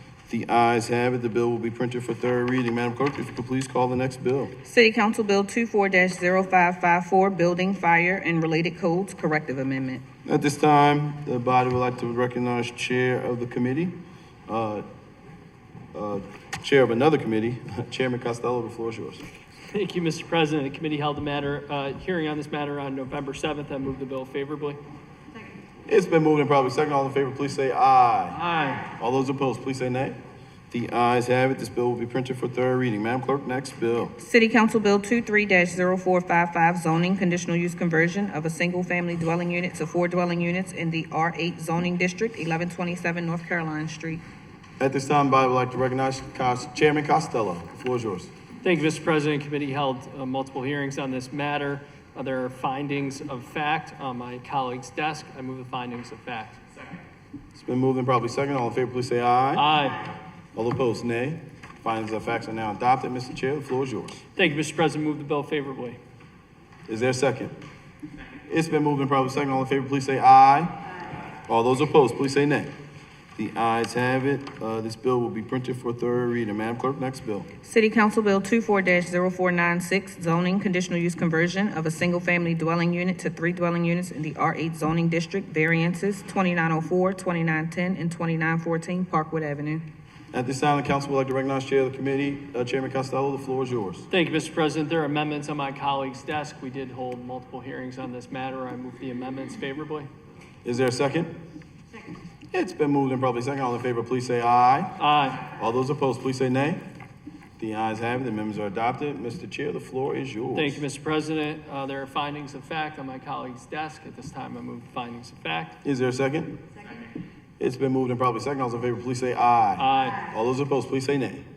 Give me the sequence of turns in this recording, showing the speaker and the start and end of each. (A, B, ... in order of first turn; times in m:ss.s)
0:00.3-0:04.5 A
0:04.6-0:10.0 B
0:10.2-0:13.9 A
0:14.5-0:14.8 A
0:15.9-0:19.2 A
0:19.7-0:24.8 C
0:25.9-0:28.4 A
0:28.3-0:28.8 C
0:29.0-0:30.2 A
0:30.7-0:34.1 A
0:34.2-0:44.2 B
0:44.8-0:48.3 A
0:48.6-0:56.6 C
0:57.6-0:59.6 A
0:59.5-1:00.1 C
1:00.5-1:04.2 A
1:04.4-1:06.0 C
1:06.9-1:07.5 A
1:08.5-1:10.7 A
1:11.5-1:12.7 A
1:13.4-1:17.5 A
1:17.6-1:29.8 B
1:30.3-1:34.1 A
1:34.1-1:40.1 C
1:40.6-1:41.3 A
1:42.5-1:44.9 A
1:45.0-1:45.4 C
1:45.5-1:46.8 A
1:47.6-1:50.8 A
1:50.5-1:55.8 C
1:55.8-1:56.6 A
1:57.6-2:01.4 A
1:59.8-2:00.2 C